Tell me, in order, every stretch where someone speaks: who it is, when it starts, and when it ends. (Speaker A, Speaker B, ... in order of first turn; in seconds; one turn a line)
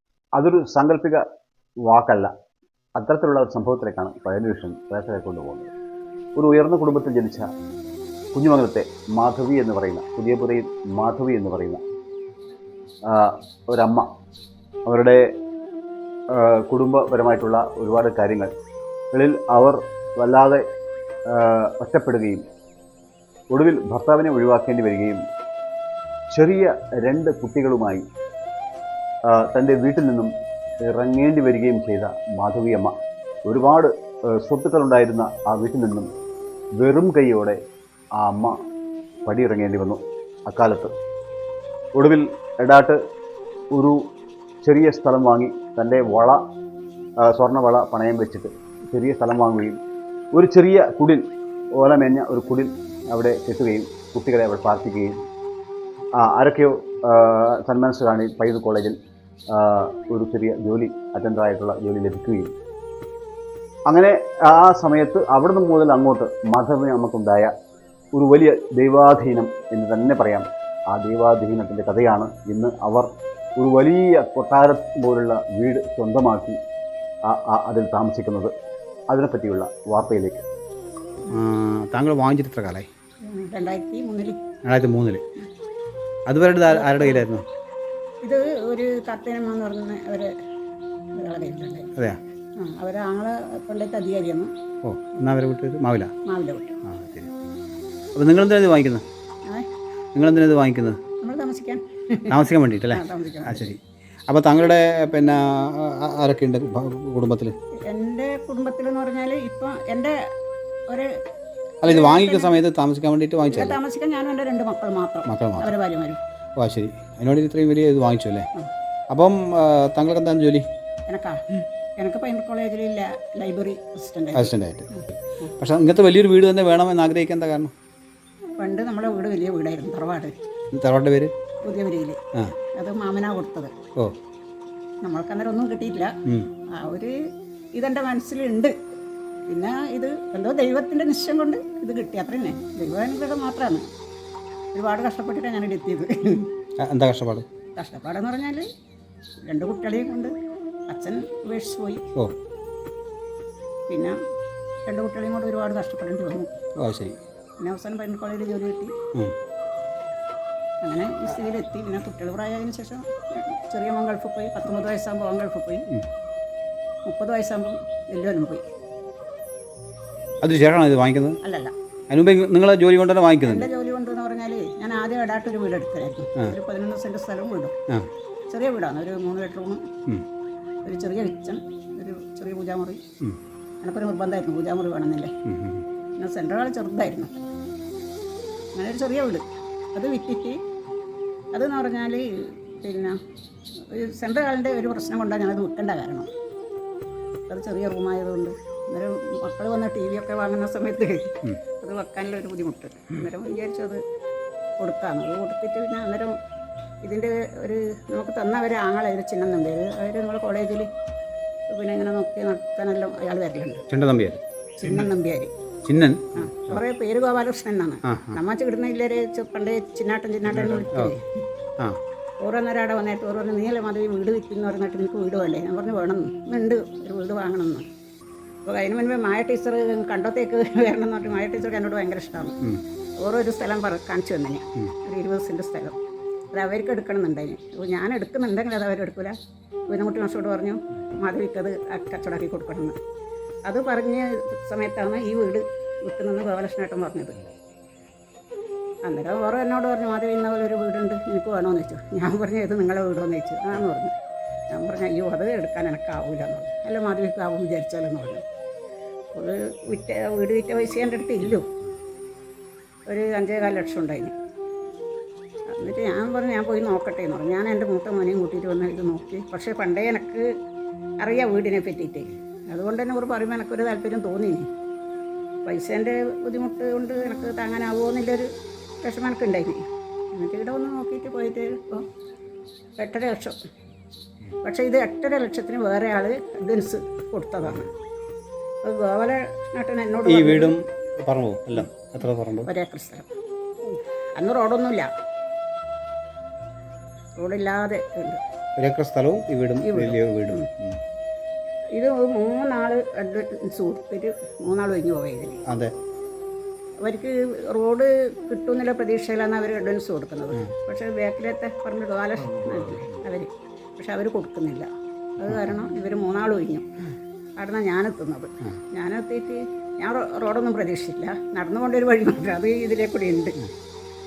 Speaker A: 0.4-1.2
Speaker A: 1.9-2.3
Speaker A: 3.0-5.7
Speaker A: 6.4-7.5
Speaker A: 8.3-11.8
Speaker A: 13.1-14.1
Speaker A: 14.9-15.3
Speaker A: 16.3-18.5
Speaker A: 19.1-20.6
Speaker A: 21.3-22.4
Speaker A: 23.5-25.2
Speaker A: 26.3-28.1
Speaker A: 29.3-30.3
Speaker A: 30.9-33.0
Speaker A: 33.5-36.1
Speaker A: 36.8-37.6
Speaker A: 38.2-38.6
Speaker A: 39.3-40.9
Speaker A: 42.0-43.0
Speaker A: 43.7-44.0
Speaker A: 44.6-46.4
Speaker A: 47.2-49.8
Speaker A: 50.3-55.1
Speaker A: 56.1-59.0
Speaker A: 59.5-62.5
Speaker A: 63.9-67.5
Speaker A: 68.1-76.6
Speaker A: 77.3-78.5
Speaker A: 79.1-80.5
Speaker B: 81.3-82.9
Speaker C: 83.2-84.4
Speaker B: 84.7-85.2
Speaker B: 86.3-87.5
Speaker C: 86.7-87.3
Speaker C: 88.2-90.3
Speaker C: 91.2-91.9
Speaker C: 92.6-94.5
Speaker B: 94.8-96.1
Speaker C: 96.3-96.8
Speaker B: 96.8-97.3
Speaker B: 98.2-99.0
Speaker B: 100.2-101.0
Speaker C: 101.2-103.7
Speaker B: 102.3-107.6
Speaker C: 107.8-110.2
Speaker B: 111.8-113.8
Speaker C: 111.8-112.6
Speaker C: 113.5-116.2
Speaker B: 115.3-115.7
Speaker B: 116.6-118.5
Speaker B: 119.1-120.7
Speaker C: 121.1-125.5
Speaker B: 124.3-127.7
Speaker C: 128.6-130.3
Speaker B: 130.7-131.3
Speaker C: 131.6-132.2
Speaker C: 132.8-133.7
Speaker C: 135.0-136.1
Speaker C: 136.8-137.1
Speaker C: 137.7-138.7
Speaker C: 139.5-143.9
Speaker C: 144.7-146.5
Speaker B: 146.8-147.5
Speaker C: 147.8-148.7
Speaker C: 149.4-150.3
Speaker C: 150.9-152.0
Speaker C: 153.9-154.1
Speaker C: 154.9-156.5
Speaker B: 156.8-157.2
Speaker C: 157.6-158.9
Speaker C: 160.8-165.9
Speaker C: 167.1-168.6
Speaker B: 170.4-171.4
Speaker C: 171.4-171.7
Speaker B: 172.1-173.7
Speaker C: 173.4-177.8
Speaker C: 178.5-179.8
Speaker C: 180.8-183.0
Speaker C: 183.8-185.3
Speaker B: 185.5-185.8
Speaker C: 186.2-187.3
Speaker C: 188.8-190.6
Speaker C: 191.5-193.2
Speaker C: 193.8-196.3
Speaker C: 197.5-204.0
Speaker C: 204.8-206.4
Speaker C: 207.0-210.9
Speaker C: 211.7-213.9
Speaker B: 213.9-215.0
Speaker C: 214.8-215.5
Speaker B: 215.9-216.8
Speaker C: 216.3-221.4
Speaker B: 218.1-218.4
Speaker B: 220.5-221.1
Speaker C: 222.4-227.9
Speaker C: 228.7-232.6
Speaker C: 233.2-236.0
Speaker C: 236.5-239.3
Speaker C: 239.9-243.0
Speaker C: 243.7-247.4
Speaker C: 249.1-254.1
Speaker C: 254.7-258.4
Speaker C: 259.3-261.7
Speaker C: 263.1-264.4
Speaker C: 265.7-270.5
Speaker C: 271.2-274.7
Speaker C: 275.6-278.5
Speaker C: 279.0-279.8
Speaker C: 280.3-282.1
Speaker C: 283.0-283.6
Speaker C: 284.6-287.9
Speaker C: 288.8-290.8
Speaker B: 290.2-292.7
Speaker C: 292.6-293.3
Speaker C: 293.9-295.1
Speaker C: 297.4-298.4
Speaker B: 298.8-301.0
Speaker C: 299.8-300.7
Speaker C: 302.0-305.6
Speaker B: 305.7-305.9
Speaker C: 307.0-316.9
Speaker C: 317.6-323.7